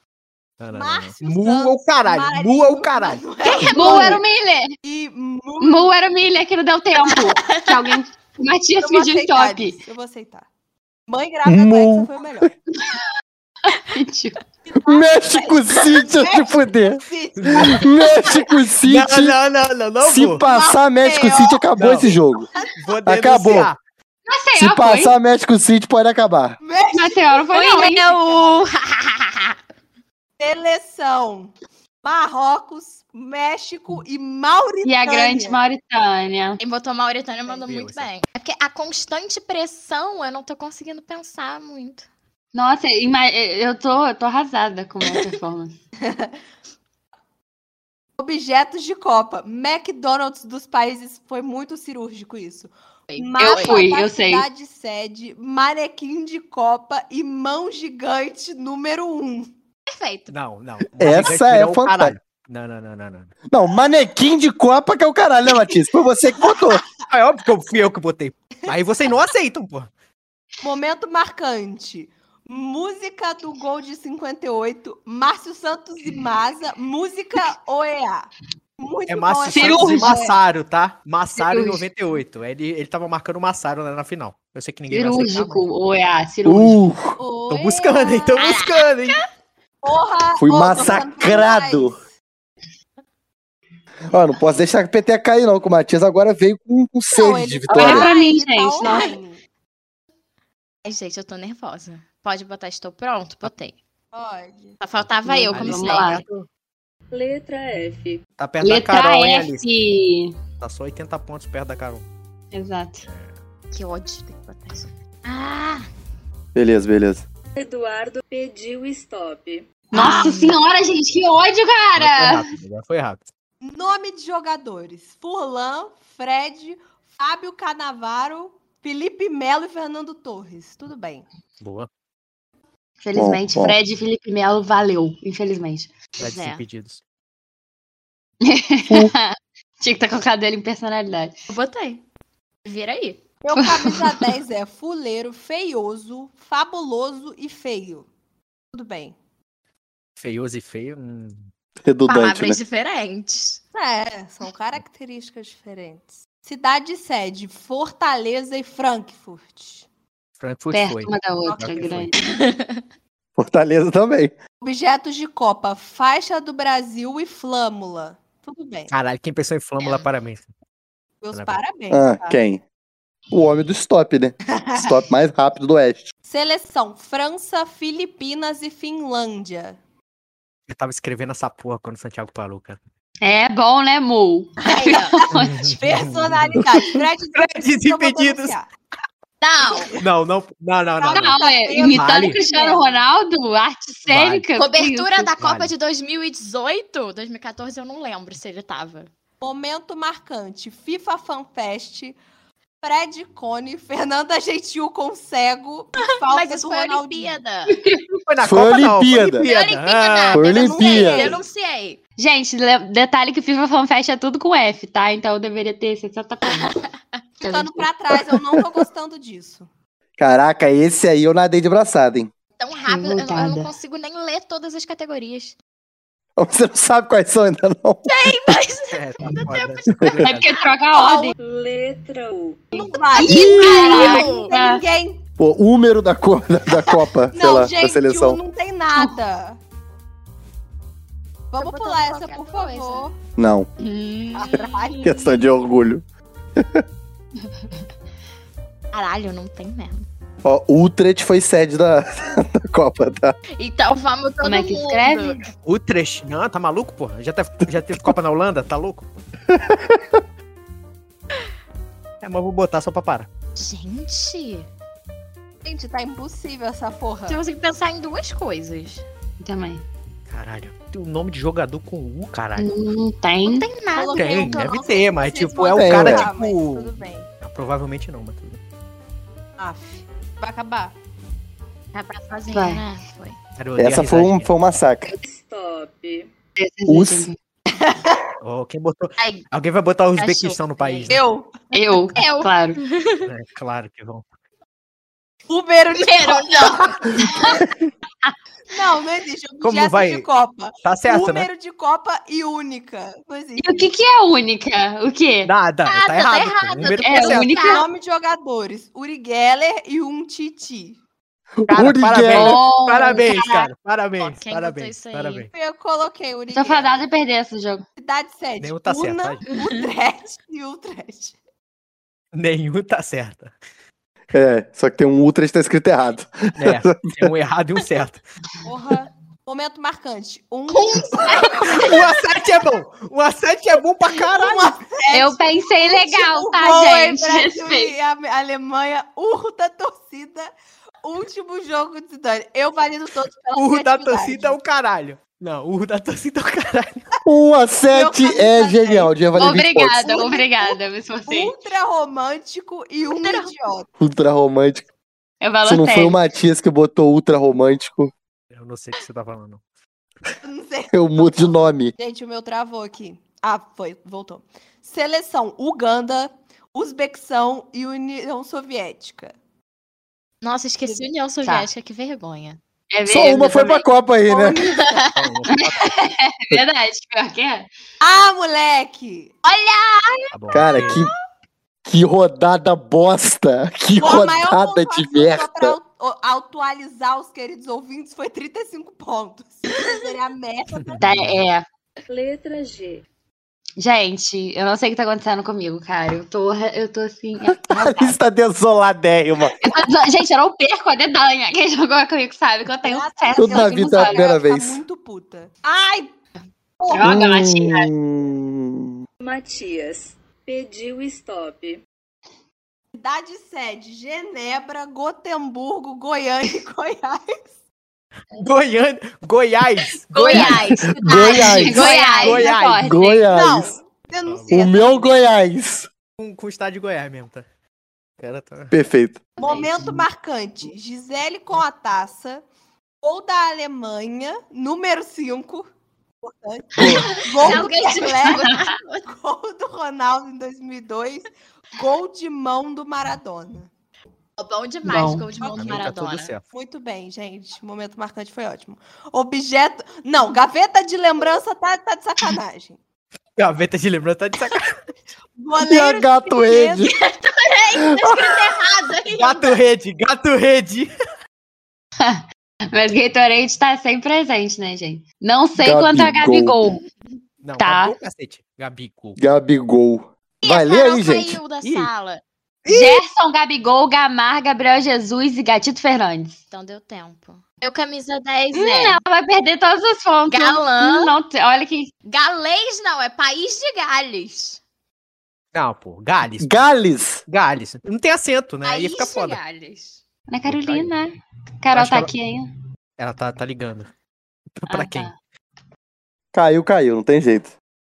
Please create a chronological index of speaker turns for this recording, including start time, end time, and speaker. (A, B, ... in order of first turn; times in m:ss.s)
0:00.6-0:03.2 A
0:00.7-0:04.2 B
0:03.4-0:04.2 C
0:03.6-0:04.8 D
0:04.8-0:05.9 B
0:05.6-0:09.8 D
0:07.1-0:07.7 C
0:08.8-0:10.5 B
0:11.1-0:12.5 B
0:11.4-0:12.5 E
0:13.7-0:14.4 D
0:14.7-0:18.1 B
0:14.8-0:17.0 E
0:17.4-0:17.8 A
0:17.6-0:19.4 E
0:18.8-0:20.4 A
0:20.0-0:22.5 E
0:20.4-0:22.9 B
0:21.8-0:22.1 A
0:22.8-0:23.8 A
0:23.0-0:23.7 E
0:24.3-0:25.2 D
0:24.5-0:26.6 E
0:26.6-0:28.6 B
0:26.9-0:28.1 D
0:27.5-0:29.6 C
0:30.4-0:35.6 B
0:34.8-0:36.6 D
0:36.6-0:42.1 C
0:37.5-0:38.1 A
0:42.5-0:45.8 D
0:48.2-0:59.5 B
0:53.1-0:53.8 C
0:53.4-0:54.4 D
0:59.9-1:00.3 C
1:00.3-1:03.3 A
1:01.0-1:02.2 E
1:03.5-1:06.8 E
1:06.4-1:06.9 B
1:07.1-1:09.9 A
1:10.6-1:20.4 B
1:19.1-1:25.6 A
1:19.5-1:20.2 D
1:21.4-1:21.8 D
1:24.9-1:26.8 D
1:26.4-1:27.2 E
1:27.2-1:28.4 B
1:27.5-1:29.2 A
1:28.4-1:29.2 C
1:29.8-1:32.0 B
1:30.4-1:32.0 E
1:34.1-1:38.1 E
1:37.1-1:39.4 B
1:37.7-1:39.1 D
1:38.8-1:39.1 C
1:40.8-1:43.8 C
1:44.1-1:44.8 B
1:44.8-1:46.3 C
1:45.2-1:46.3 D
1:45.5-1:46.2 A
1:47.1-1:48.2 F
1:48.4-1:49.6 A
1:48.6-1:50.4 D
1:50.6-1:52.0 A
1:52.5-1:53.1 D
1:53.0-1:53.3 A
1:53.7-1:55.9 C
1:56.5-1:57.2 E
1:57.6-1:59.6 F
1:59.9-2:02.5 D
1:59.9-2:00.6 C
2:01.9-2:03.3 A
2:03.6-2:11.2 B
2:11.6-2:11.9 A
2:13.0-2:15.9 D
2:13.1-2:13.8 E
2:16.2-2:16.6 C
2:16.2-2:17.0 A
2:18.4-2:21.3 D
2:21.5-2:22.0 C
2:22.6-2:23.2 C
2:23.4-2:28.1 B
2:23.6-2:24.2 D
2:28.7-2:29.2 B
2:30.2-2:31.5 A
2:31.8-2:32.6 E
2:32.1-2:33.6 C
2:33.7-2:39.8 B
2:40.4-2:42.1 A
2:40.7-2:42.2 D
2:41.5-2:42.0 B
2:42.2-2:42.8 C
2:43.4-2:44.3 E
2:44.6-2:48.9 B
2:48.9-2:50.5 A
2:49.8-2:50.1 C
2:51.2-2:52.4 B
2:51.3-2:51.6 A
2:51.9-2:52.6 E
2:53.3-2:56.1 E
2:56.2-2:59.8 B
3:00.7-3:02.8 A
3:03.2-3:05.7 D
3:04.7-3:05.2 C
3:05.3-3:06.6 A
3:05.7-3:08.7 B
3:07.3-3:08.6 A
3:09.4-3:10.0 C
3:09.6-3:10.0 B
3:10.0-3:12.4 A
3:11.0-3:12.8 B
3:11.1-3:15.3 D
3:14.1-3:14.4 A
3:14.5-3:19.1 C
3:15.4-3:15.7 A
3:19.4-3:22.2 B
3:22.8-3:27.4 B
3:26.0-3:27.8 C
3:27.7-3:28.0 D
3:28.3-3:30.4 A
3:28.4-3:29.5 E
3:29.4-3:32.0 C
3:30.3-3:31.4 E
3:30.4-3:31.4 B
3:32.2-3:36.8 D
3:36.4-3:36.9 C
3:37.4-3:37.9 D
3:37.4-3:39.7 B
3:40.2-3:42.3 E
3:42.6-3:45.6 C
3:42.9-3:43.7 D
3:46.4-3:48.6 E
3:48.0-3:50.2 C
3:48.9-3:50.5 A
3:50.2-3:51.3 D
3:50.9-3:51.3 B
3:51.4-3:52.8 F
3:52.7-3:55.2 B
3:53.1-3:54.6 C
3:53.2-3:54.8 D
3:55.4-3:58.4 E
3:57.3-3:59.6 B
4:01.5-4:03.1 B
4:01.6-4:03.1 C
4:03.4-4:03.7 E
4:03.8-4:05.0 C
4:04.3-4:05.3 B
4:05.0-4:06.0 E
4:06.6-4:06.8 E
4:08.9-4:10.1 C
4:10.4-4:13.4 E
4:13.6-4:15.5 C
4:14.4-4:15.4 D
4:15.6-4:19.1 A
4:19.5-4:20.2 E
4:22.2-4:23.3 A
4:23.6-4:24.7 C
4:25.6-4:27.4 B
4:27.3-4:29.0 C
4:29.4-4:29.8 D
4:30.3-4:32.7 A
4:32.6-4:33.7 D
4:33.4-4:34.7 C
4:33.9-4:37.3 B
4:34.1-4:38.6 A
4:35.7-4:36.3 E
4:39.6-4:40.9 B
4:41.9-4:43.4 C
4:42.5-4:42.8 D
4:43.6-4:44.5 A
4:43.8-4:45.1 E
4:45.2-4:46.3 F
4:46.6-4:47.4 D
4:46.9-4:47.3 E
4:47.7-4:48.2 B
4:48.4-4:51.2 A
4:49.2-4:49.4 C
4:50.2-4:51.2 C
4:51.1-4:51.5 B
4:51.7-4:52.8 D
4:52.1-4:53.3 C
4:53.2-4:54.2 A
4:55.5-4:57.6 B
4:55.9-4:57.6 C
4:58.7-5:03.9 B
4:59.6-5:00.3 A
5:00.8-5:01.5 A
5:03.6-5:05.5 D
5:05.4-5:07.6 A
5:05.8-5:07.9 C
5:07.0-5:07.8 D
5:07.7-5:11.0 B
5:11.6-5:12.6 E
5:11.7-5:15.5 A
5:12.3-5:13.7 D
5:14.2-5:15.5 C
5:15.5-5:17.0 B
5:16.5-5:17.8 D
5:18.0-5:21.4 B
5:18.6-5:19.4 A
5:22.3-5:23.5 A
5:24.3-5:27.3 E
5:26.6-5:28.2 A
5:28.6-5:32.0 B
5:30.7-5:32.1 C
5:31.6-5:34.8 A
5:34.1-5:40.5 B
5:35.1-5:38.0 D
5:41.0-5:44.6 B
5:43.5-5:47.0 A
5:47.2-5:50.1 E
5:47.9-5:49.1 B
5:49.4-5:51.5 D
5:50.0-5:53.9 B
5:53.1-5:53.5 C
5:54.0-5:54.8 E
5:55.4-5:56.2 D
5:55.6-5:58.1 E
5:58.5-5:59.6 A
6:00.4-6:09.3 B
6:00.9-6:01.9 E
6:10.4-6:12.6 C
6:11.4-6:11.7 D
6:12.9-6:13.8 D
6:13.0-6:14.7 E
6:14.3-6:15.0 B
6:14.6-6:15.3 C
6:15.1-6:15.8 A
6:15.5-6:17.7 D
6:18.0-6:19.3 B
6:19.4-6:21.1 C
6:20.3-6:21.0 A
6:20.5-6:21.1 E
6:21.8-6:25.8 E
6:24.0-6:31.0 B
6:30.8-6:31.4 A
6:31.0-6:31.6 D
6:32.1-6:33.0 F
6:33.8-6:38.2 D
6:37.5-6:39.6 E
6:39.6-6:44.3 D
6:42.8-6:46.1 B
6:43.4-6:44.8 E
6:46.8-6:47.1 B
6:46.9-6:47.9 D
6:47.0-6:49.0 E
6:49.2-6:51.8 F
6:52.9-6:57.4 B
6:58.3-7:00.8 A
7:00.0-7:02.5 C
7:00.7-7:01.9 E
7:01.2-7:03.2 D
7:02.2-7:02.9 A
7:02.8-7:03.8 E
7:03.3-7:05.2 B
7:04.2-7:04.5 A
7:04.5-7:05.9 E
7:06.2-7:07.4 A
7:08.2-7:08.7 A
7:08.7-7:09.2 E
7:09.4-7:12.4 B
7:13.0-7:15.7 B
7:16.2-7:18.5 B
7:16.8-7:17.1 A
7:16.8-7:17.6 D
7:17.0-7:19.1 C
7:18.2-7:18.7 D
7:19.1-7:23.7 B
7:24.4-7:26.4 C
7:24.8-7:25.3 D
7:25.4-7:25.8 B
7:25.4-7:26.4 A
7:26.5-7:32.8 B
7:33.4-7:34.8 A
7:35.4-7:36.9 B
7:35.6-7:36.9 E
7:36.8-7:39.6 C
7:37.8-7:38.3 E
7:39.2-7:40.9 A
7:42.0-7:46.8 D
7:45.6-7:46.6 E
7:47.4-7:49.2 A
7:47.6-7:47.9 D
7:49.2-7:51.4 E
7:50.4-7:52.2 C
7:51.6-7:51.9 A
7:52.6-7:53.0 A
7:52.7-7:56.4 D
7:56.5-7:59.0 C
7:58.5-8:01.9 D
8:00.3-8:01.1 C
8:02.0-8:04.6 C
8:05.5-8:06.6 A
8:06.4-8:07.2 E
8:07.3-8:09.4 A
8:08.6-8:10.0 C
8:10.3-8:12.5 D
8:10.5-8:10.9 A
8:11.7-8:12.1 A
8:13.0-8:13.9 A
8:14.6-8:15.1 A
8:14.7-8:15.1 D
8:16.3-8:17.5 E